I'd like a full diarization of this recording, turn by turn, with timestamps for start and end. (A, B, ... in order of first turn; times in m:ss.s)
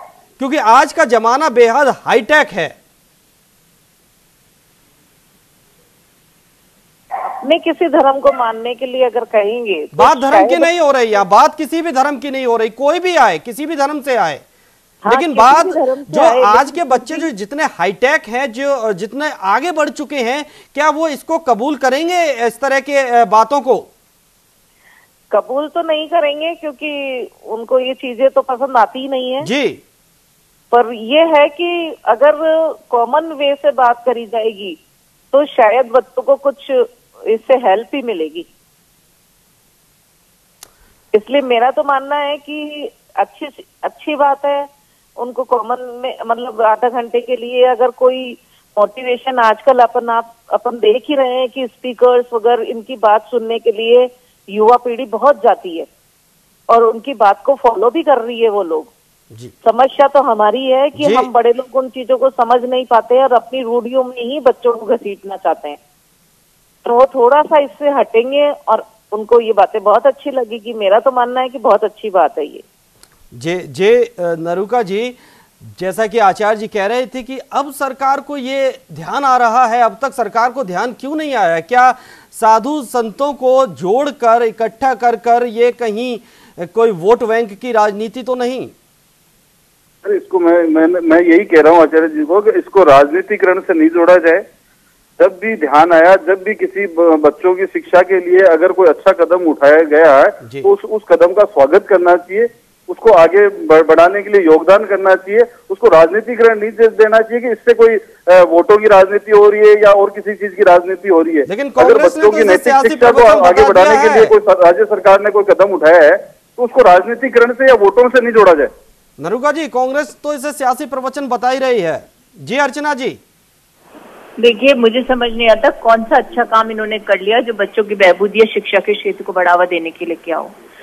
0:00.4-0:02.8 A
0:07.3-0:10.7 B
0:09.9-0:14.4 A
0:15.0-0:17.3 B
0:15.1-0:23.9 A
0:25.3-0:29.5 B
0:29.4-0:29.8 A
0:30.7-0:34.8 B
0:35.3-0:38.5 B
0:41.1-0:55.9 B
0:56.7-0:58.9 B
0:59.6-1:05.8 B
1:01.0-1:01.3 A
1:06.8-1:12.6 B
1:13.3-1:28.7 A
1:30.0-1:34.4 C
1:35.2-1:58.7 C
1:51.5-1:54.3 A
1:59.2-2:03.2 A
2:04.4-2:10.5 D